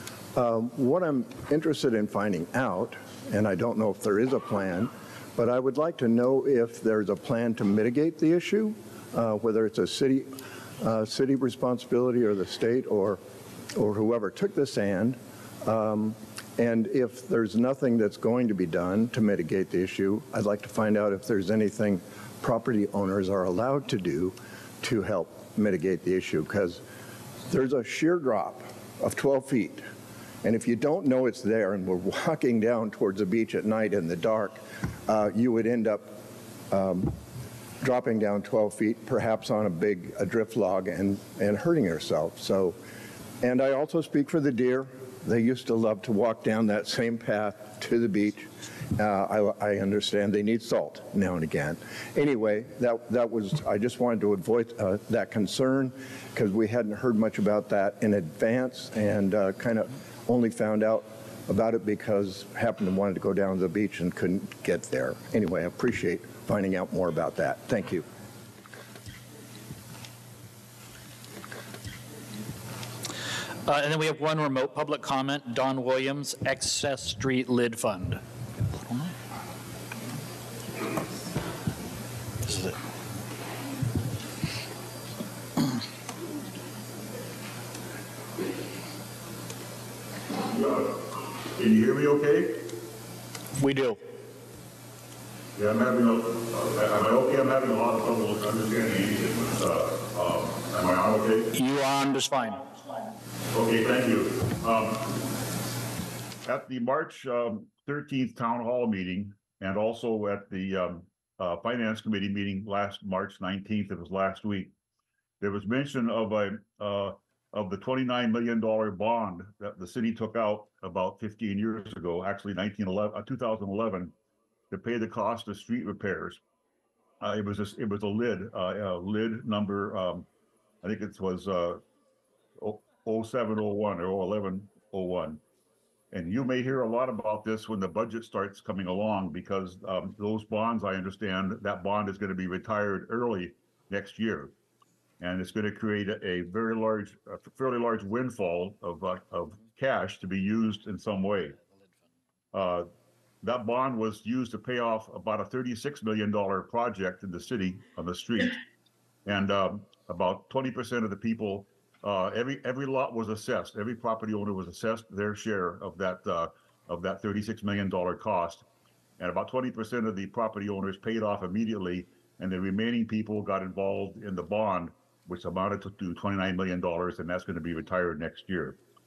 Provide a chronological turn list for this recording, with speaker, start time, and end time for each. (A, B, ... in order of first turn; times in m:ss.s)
0:00.4-0:10.3 A
0:10.8-0:13.2 A
0:13.8-0:26.8 A
0:27.5-0:29.8 A
0:30.4-0:36.2 A
0:36.7-0:37.2 A
0:37.8-0:42.8 A
0:43.4-1:08.0 A
1:13.7-1:18.2 B
1:30.5-1:31.0 C
1:31.5-1:32.6 C
1:33.6-1:34.0 B
1:35.6-1:41.5 C
1:41.6-1:42.6 B
1:43.5-1:45.0 C
1:46.4-1:54.7 C
1:55.4-2:04.1 C
2:04.7-2:06.4 C
2:07.2-2:10.3 C
2:10.8-2:11.8 C
2:12.6-2:15.4 C
2:16.1-2:24.5 C
2:25.2-2:31.6 C
2:32.5-2:32.9 C
2:33.4-2:38.6 C
2:39.3-2:48.6 C
2:49.2-2:58.8 C